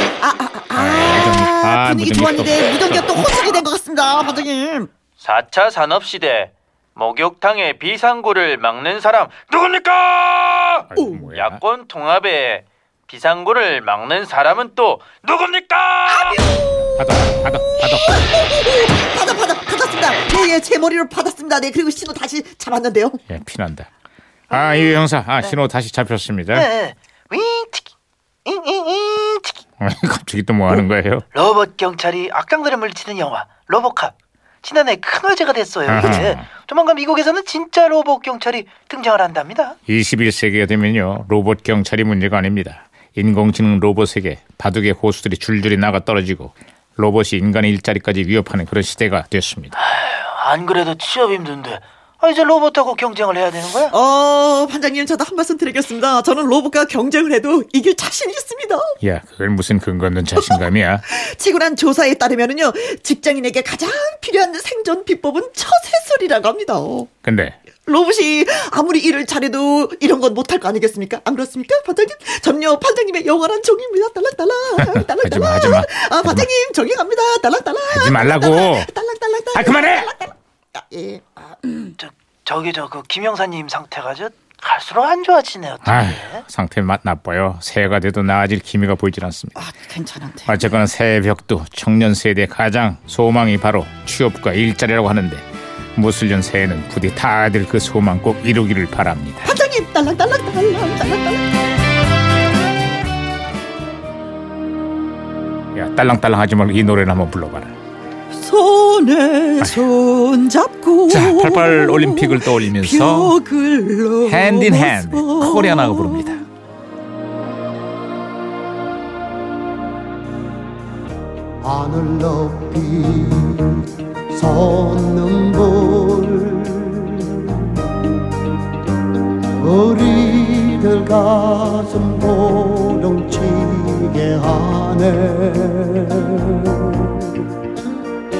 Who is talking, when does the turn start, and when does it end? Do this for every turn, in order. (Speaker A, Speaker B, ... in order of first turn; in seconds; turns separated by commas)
Speaker A: 0.2-4.9, Speaker B: 0.8-3.1, Speaker C: 5.2-16.4, Speaker B: 10.9-11.6, Speaker A: 16.1-16.6, Speaker B: 17.0-18.2, Speaker A: 18.0-23.2, Speaker B: 23.3-23.9, Speaker B: 24.5-26.7, Speaker C: 26.5-27.9, Speaker C: 28.4-29.6, Speaker B: 29.8-31.2, Speaker C: 31.3-39.8, Speaker B: 35.9-36.5, Speaker B: 39.9-49.8, Speaker C: 49.8-53.9, Speaker A: 53.9-58.9, Speaker B: 59.0-61.0, Speaker A: 60.4-67.1, Speaker B: 67.2-67.6, Speaker A: 67.8-81.9, Speaker B: 74.8-76.5, Speaker B: 77.9-78.9, Speaker B: 79.5-80.1, Speaker C: 82.0-86.4, Speaker B: 85.8-89.6, Speaker A: 89.5-90.6, Speaker B: 90.5-99.5, Speaker A: 99.4-101.4, Speaker B: 105.7-107.7, Speaker A: 108.3-116.4, Speaker B: 111.1-113.3, Speaker B: 114.2-116.4, Speaker D: 121.6-123.8, Speaker D: 124.3-127.4, Speaker D: 129.6-137.1